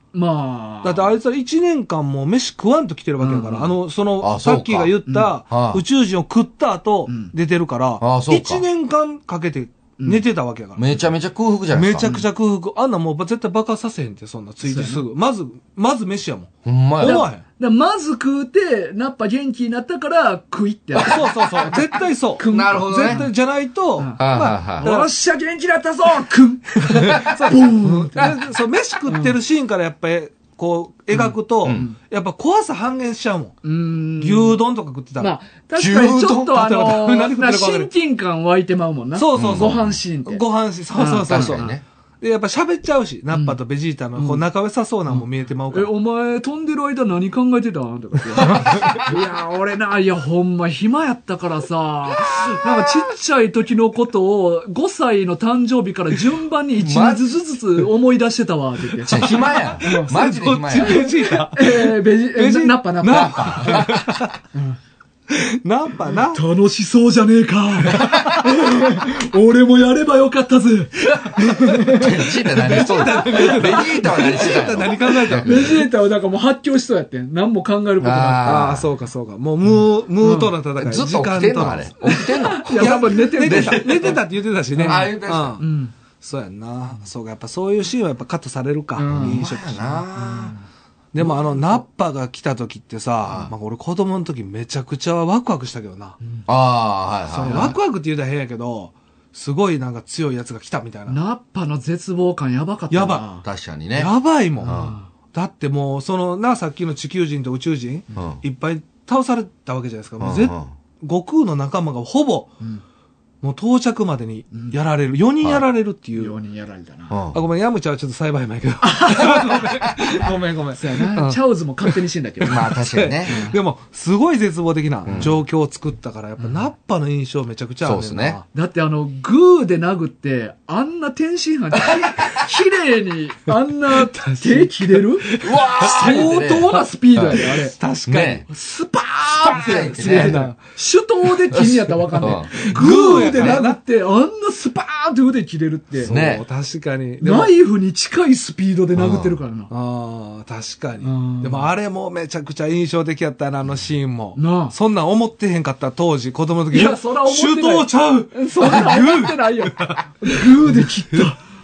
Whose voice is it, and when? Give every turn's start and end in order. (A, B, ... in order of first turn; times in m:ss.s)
0:00.1-0:01.2 A
0:00.8-0:11.0 B
0:03.2-0:03.7 A
0:04.2-0:05.8 C
0:05.1-0:05.3 A
0:07.1-0:07.3 A
0:08.0-0:08.6 C
0:10.0-0:10.2 A
0:10.8-0:12.1 C
0:11.7-0:17.4 B
0:14.6-0:15.0 A
0:16.6-0:17.2 C
0:17.0-0:23.3 A
0:21.0-0:25.1 B
0:22.5-0:23.2 C
0:24.2-0:24.9 C
0:24.8-0:28.4 A
0:26.9-0:27.4 C
0:26.9-0:33.6 B
0:29.1-0:29.4 A
0:31.1-0:32.0 A
0:33.6-0:34.6 A
0:34.2-0:35.3 B
0:35.2-0:41.8 A
0:35.8-0:36.6 C
0:36.3-0:37.9 B
0:39.2-0:45.9 B
0:39.3-0:40.0 C
0:41.3-0:41.8 C
0:43.3-0:43.6 A
0:44.2-0:44.4 A
0:45.1-1:03.9 A
0:48.6-0:49.1 C
0:56.8-0:57.3 C
0:59.0-1:01.1 C
0:59.1-1:04.3 B
1:03.0-1:04.2 C
1:04.5-1:04.8 A
1:05.3-1:06.4 B
1:06.3-1:14.5 A
1:07.9-1:08.4 C
1:08.0-1:08.3 B
1:11.7-1:15.9 C
1:12.5-1:15.7 B
1:15.4-1:18.7 A
1:18.0-1:18.9 C
1:18.4-1:25.7 B
1:19.8-1:20.5 A
1:20.8-1:24.2 C
1:22.0-1:24.2 A
1:24.8-1:25.9 A
1:24.8-1:25.6 C
1:26.2-1:30.0 B
1:29.0-1:29.5 A
1:29.1-1:30.6 C
1:30.2-1:30.6 A
1:31.1-1:36.2 B
1:31.2-1:31.8 A
1:33.3-1:33.5 C
1:36.5-1:37.8 C
1:37.3-1:41.2 B
1:37.4-1:37.8 A
1:41.1-1:43.4 A
1:42.9-1:43.2 B
1:43.4-1:44.1 C
1:44.0-1:44.8 B
1:44.6-1:45.1 A
1:44.7-1:45.0 C
1:45.3-1:52.5 B
1:50.2-1:50.7 C
1:53.4-1:56.4 B
1:56.2-1:57.2 A
1:57.1-1:57.4 C
1:57.3-2:08.4 B
1:58.8-1:59.7 A
2:00.8-2:02.7 A
2:02.4-2:03.4 C
2:03.2-2:03.6 A
2:05.1-2:05.4 C
2:06.4-2:06.7 A
2:07.8-2:08.4 C
2:08.5-2:17.8 A
2:11.9-2:12.4 C
2:14.0-2:18.5 B
2:15.4-2:17.4 C
2:18.1-2:18.4 C
2:18.5-2:26.1 A
2:19.3-2:20.4 C
2:19.6-2:20.6 B
2:21.5-2:22.6 C
2:22.6-2:23.8 B
2:26.0-2:27.5 B
2:26.1-2:26.4 C
2:27.2-2:29.7 A
2:29.0-2:29.4 C
2:29.7-2:41.3 B
2:31.0-2:31.7 A
2:34.4-2:34.8 A
2:36.7-2:41.4 A